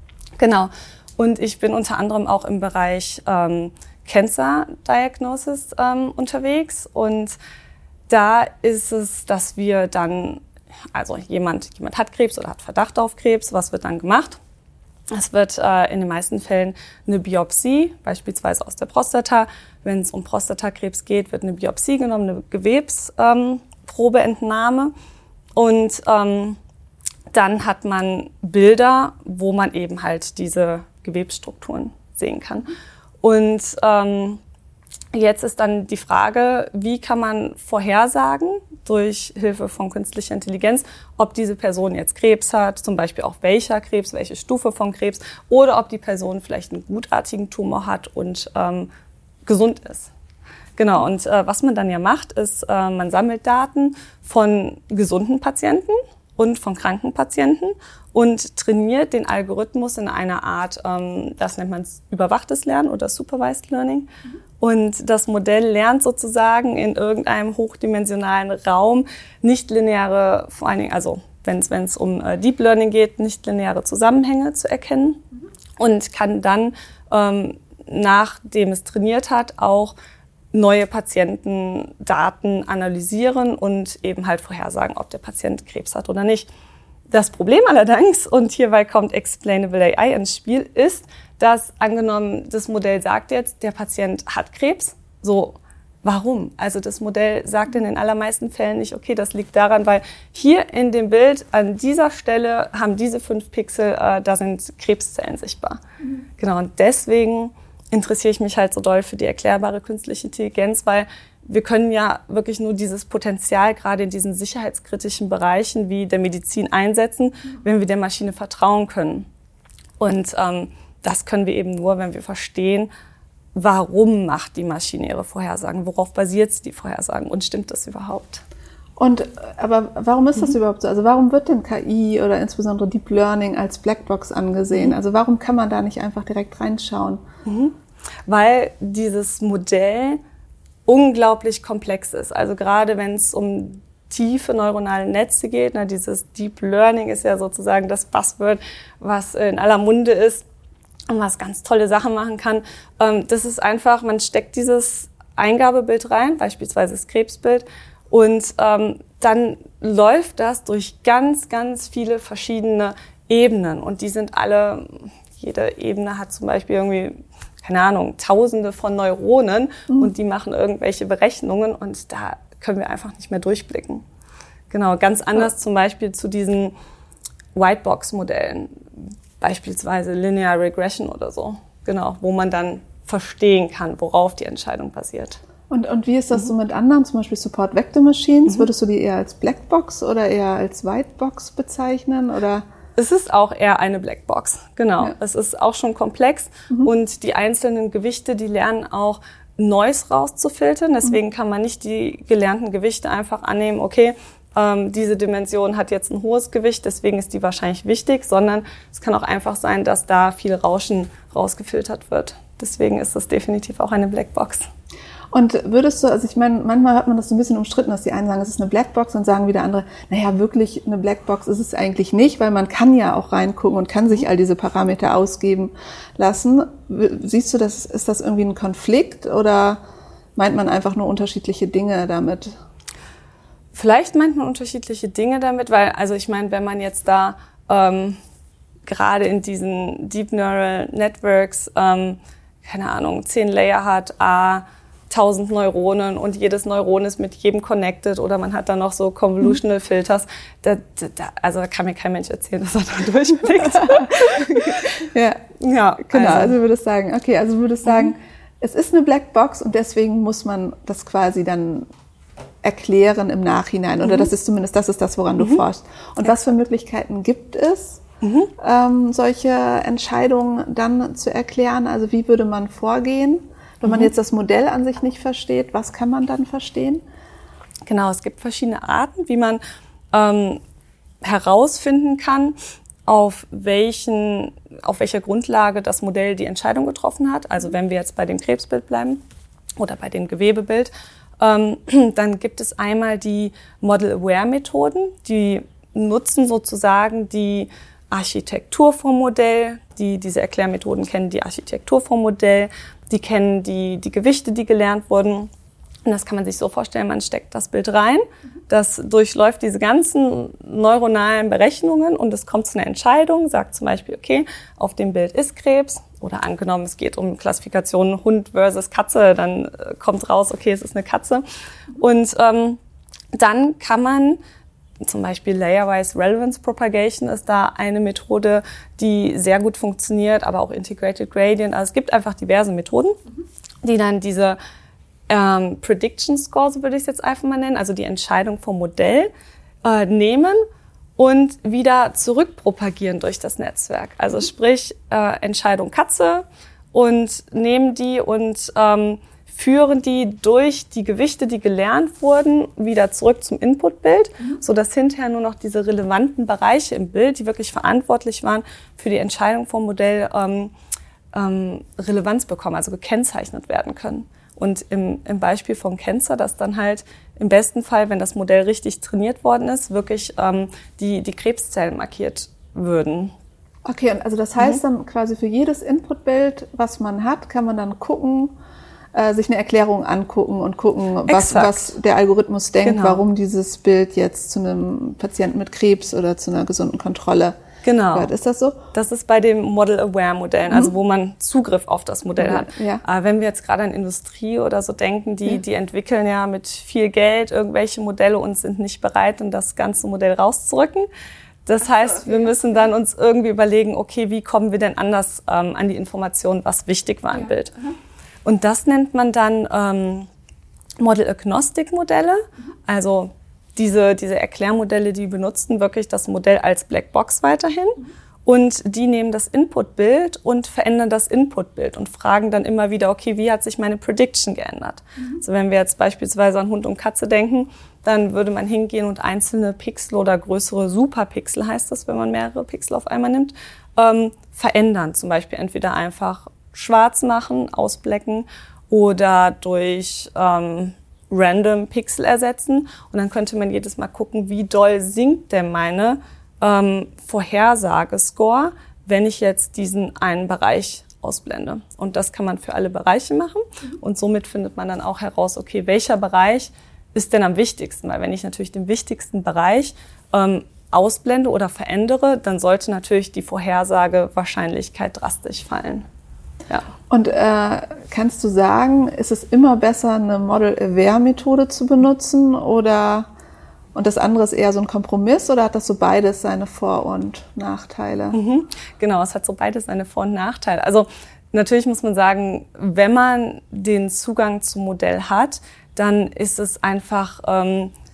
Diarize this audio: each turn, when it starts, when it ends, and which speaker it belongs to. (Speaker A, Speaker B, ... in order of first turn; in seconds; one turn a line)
Speaker A: 0.4-7.3
Speaker A: 8.1-14.4
Speaker A: 15.1-24.9
Speaker A: 25.6-26.6
Speaker A: 27.3-32.7
Speaker A: 33.2-34.4
Speaker A: 35.1-48.9
Speaker A: 49.4-50.1
Speaker A: 50.8-64.1
Speaker A: 64.6-75.2
Speaker A: 75.8-79.9
Speaker A: 80.5-86.5
Speaker A: 87.1-105.8
Speaker A: 106.4-119.3
Speaker A: 120.0-122.9
Speaker A: 123.5-128.4
Speaker B: 129.0-137.2
Speaker A: 137.4-137.7
Speaker A: 138.3-140.2
Speaker A: 140.8-150.4
Speaker A: 151.1-174.0
Speaker A: 174.7-176.7
Speaker A: 177.5-178.7
Speaker A: 179.4-185.4
Speaker B: 185.7-192.6
Speaker A: 193.0-214.7
Speaker B: 215.3-229.8
Speaker B: 230.3-232.5
Speaker A: 233.7-238.2
Speaker A: 238.8-255.0
Speaker B: 255.1-255.4
Speaker A: 255.6-256.6
Speaker B: 256.1-261.9
Speaker B: 262.6-268.0
Speaker A: 264.0-264.3
Speaker A: 268.2-268.5
Speaker B: 268.6-277.0
Speaker A: 277.9-279.6
Speaker A: 280.1-280.6
Speaker A: 281.2-289.2
Speaker A: 289.8-305.5
Speaker A: 306.1-321.4
Speaker A: 322.0-322.8
Speaker A: 323.3-324.4
Speaker A: 325.0-333.1
Speaker A: 333.8-334.6
Speaker A: 335.3-339.3
Speaker A: 339.8-340.6
Speaker A: 341.2-360.7
Speaker A: 361.3-373.3
Speaker B: 373.8-378.5
Speaker B: 379.1-387.6
Speaker A: 381.3-381.9
Speaker A: 382.8-383.2
Speaker A: 387.8-388.3
Speaker B: 388.1-388.8
Speaker A: 388.9-401.1
Speaker B: 392.4-393.0
Speaker A: 401.6-407.8
Speaker A: 408.4-410.3
Speaker A: 411.0-466.0
Speaker B: 467.1-473.3
Speaker B: 473.9-478.4
Speaker A: 478.3-487.9